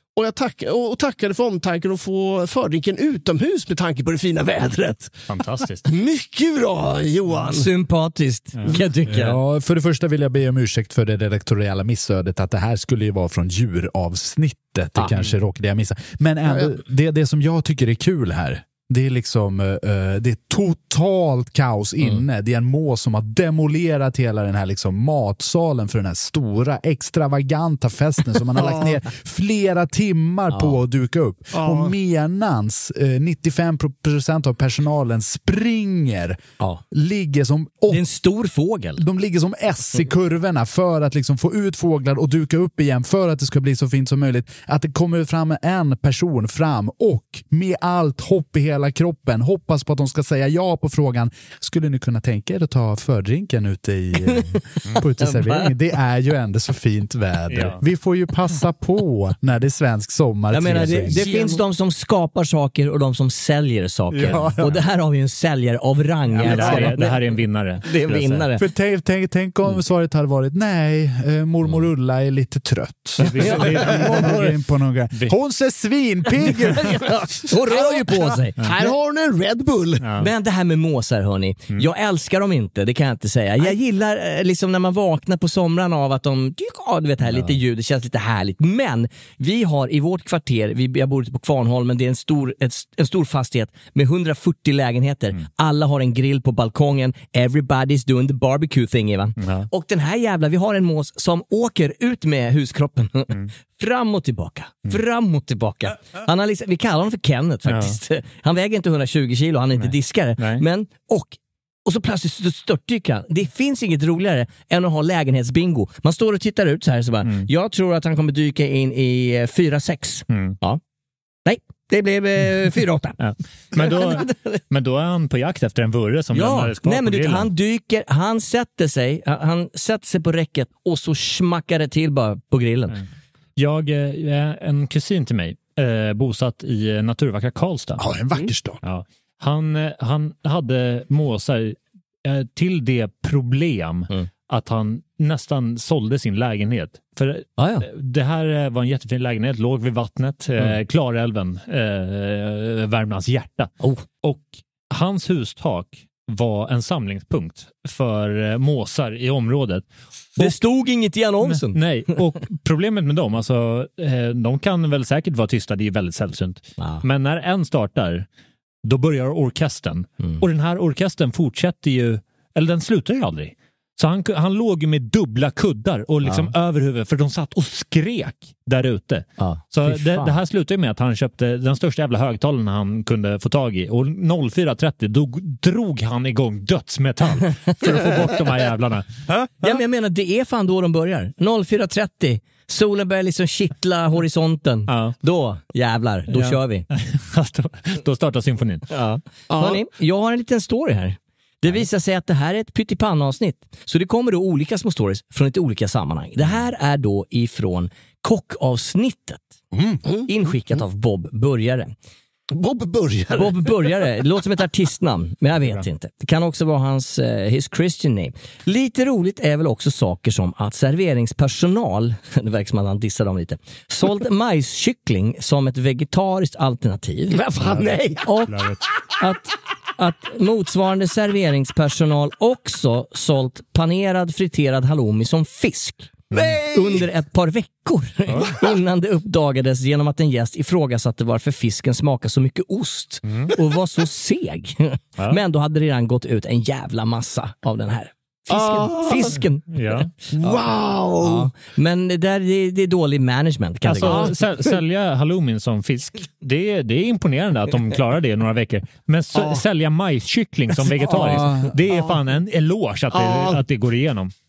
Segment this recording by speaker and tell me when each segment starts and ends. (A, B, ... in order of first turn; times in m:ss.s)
0:00.2-0:05.2 A
0:05.3-0:05.9 B
0:05.9-0:07.7 A
0:07.5-0:09.4 C
0:09.1-0:36.4 D
0:30.5-0:30.8 C
0:36.9-0:38.0 D
0:37.9-0:39.0 C
0:39.0-1:01.3 D
0:54.3-0:54.6 C
0:55.2-0:55.7 C
0:57.5-0:57.8 B
1:00.5-1:08.6 C
1:01.2-1:01.6 A
1:04.1-1:04.7 D
1:04.3-1:04.6 B
1:06.3-1:08.4 B
1:06.4-1:06.9 D
1:08.6-1:16.9 D
1:13.2-1:14.6 B
1:16.9-1:20.1 A
1:17.1-1:18.6 C
1:20.0-1:20.3 B
1:20.2-2:00.8 C
1:39.4-1:39.7 B
1:47.7-1:48.0 B
1:49.8-1:50.6 B
2:00.3-2:00.6 B
2:01.4-2:03.2 C
2:03.2-2:07.5 B
2:03.7-2:04.6 C
2:06.3-2:13.0 C
2:13.6-2:18.0 B
2:18.0-2:18.8 D
2:18.8-2:39.8 B
2:27.6-2:27.9 C
2:40.4-2:42.2 C
2:41.4-2:48.3 B
2:46.8-2:47.0 C
2:48.8-3:09.2 B
2:56.2-2:56.5 C
2:59.4-3:00.4 C
3:09.6-3:16.9 C
3:14.9-3:15.2 B
3:16.3-3:18.9 B
3:18.9-3:29.5 C
3:19.5-3:19.8 A
3:30.0-3:30.3 A
3:30.3-3:31.9 C
3:32.5-3:34.0 A
3:33.3-3:47.4 C
3:47.3-3:48.3 A
3:48.2-3:48.6 C
3:48.5-3:48.8 B
3:49.2-3:56.1 C
3:56.3-3:56.6 B
3:56.3-3:57.1 A
3:56.6-4:09.7 C
3:58.3-3:58.6 B
4:03.3-4:03.5 B
4:08.5-4:09.4 A
4:09.7-4:10.1 B
4:10.3-4:11.5 A
4:10.4-4:14.3 C
4:13.9-4:24.3 B
4:14.0-4:14.3 A
4:21.1-4:21.4 A
4:21.2-4:21.8 D
4:23.1-4:23.6 A